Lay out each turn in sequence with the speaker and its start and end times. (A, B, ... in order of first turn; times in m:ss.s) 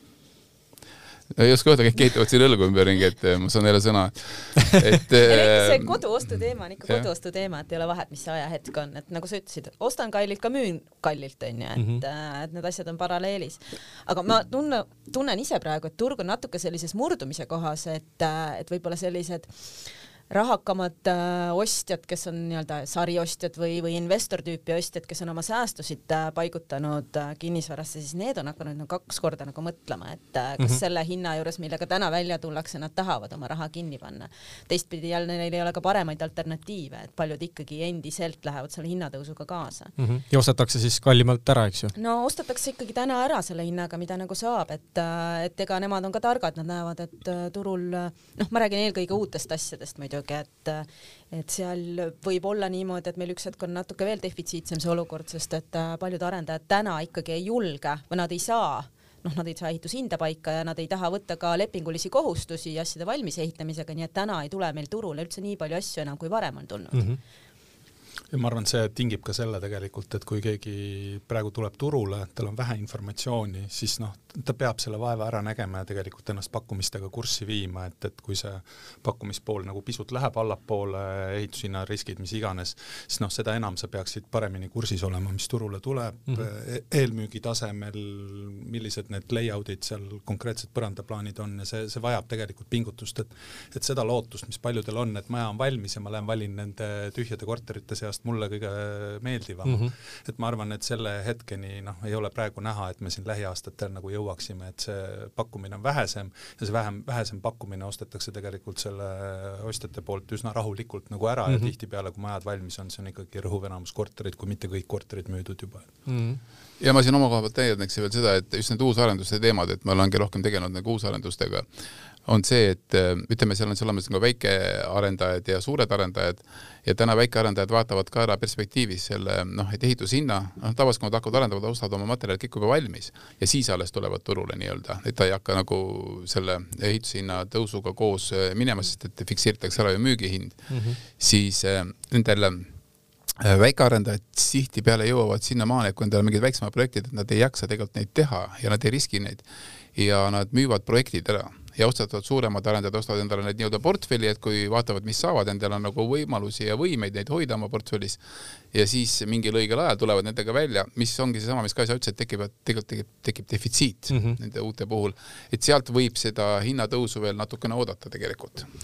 0:01.3-0:06.0 A
0:05.2-0:39.9 B
0:40.0-0:41.9 C
0:41.9-1:07.1 B
1:06.9-1:07.2 C
1:08.3-1:56.0 D
1:39.6-1:39.9 C
1:51.5-1:51.7 C
1:56.1-1:56.4 C
1:56.8-2:01.6 A
2:02.2-2:22.7 A
2:20.7-2:21.0 C
2:23.4-2:38.2 A
2:38.7-2:48.7 A
2:44.1-2:44.4 C